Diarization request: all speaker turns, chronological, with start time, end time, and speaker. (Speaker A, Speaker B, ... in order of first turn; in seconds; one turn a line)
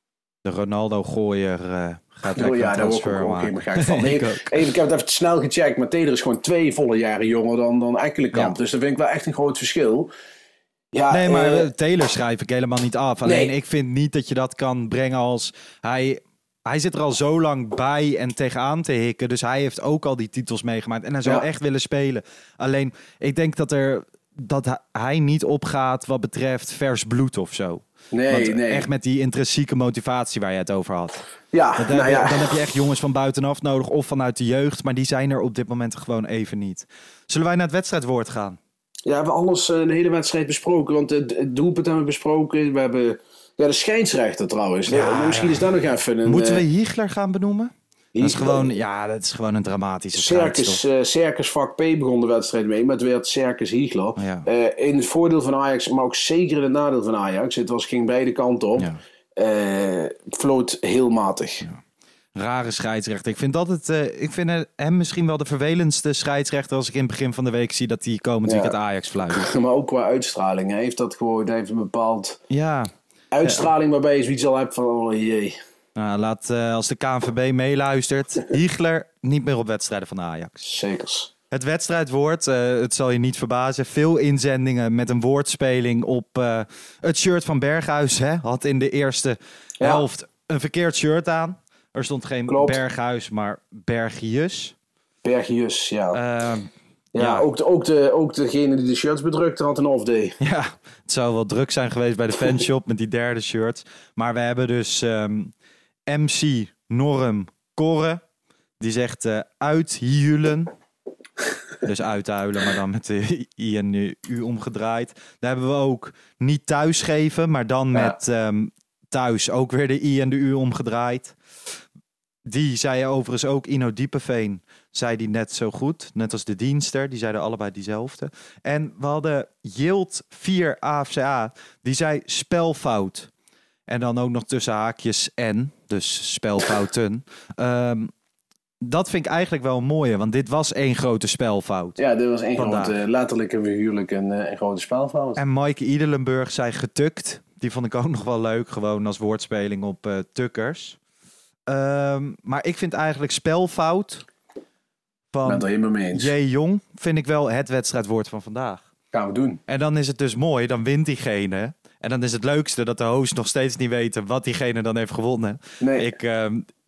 Speaker A: 0.5-4.7
Speaker B: 2.3-10.1
Speaker B: 10.9-11.7
Speaker A: 11.1-31.2
Speaker B: 13.2-13.5
Speaker B: 28.1-28.9
Speaker B: 31.5-32.6
Speaker A: 31.8-38.6
Speaker B: 39.1-46.6
Speaker A: 44.9-45.7
Speaker A: 46.2-50.8
Speaker B: 48.1-48.7
Speaker B: 50.1-61.7
Speaker A: 54.2-54.5
Speaker A: 62.4-69.5
Speaker B: 68.5-68.8
Speaker B: 69.3-72.4
Speaker A: 72.5-72.9
Speaker B: 73.3-75.6
Speaker A: 76.0-80.6
Speaker B: 80.6-81.3
Speaker A: 81.5-94.8
Speaker B: 92.5-92.8
Speaker B: 95.2-96.2
Speaker A: 96.1-97.5
Speaker B: 97.1-100.4
Speaker A: 100.4-105.5
Speaker A: 106.1-108.2
Speaker A: 108.8-110.7
Speaker A: 111.8-121.4
Speaker A: 122.5-133.3
Speaker A: 133.9-138.1
Speaker A: 138.8-142.0
Speaker B: 142.0-145.4
Speaker A: 142.6-143.0
Speaker A: 145.4-151.0
Speaker A: 151.7-154.2
Speaker A: 155.3-158.8
Speaker B: 155.4-156.3
Speaker B: 159.1-159.6
Speaker A: 159.7-166.7
Speaker B: 165.8-166.1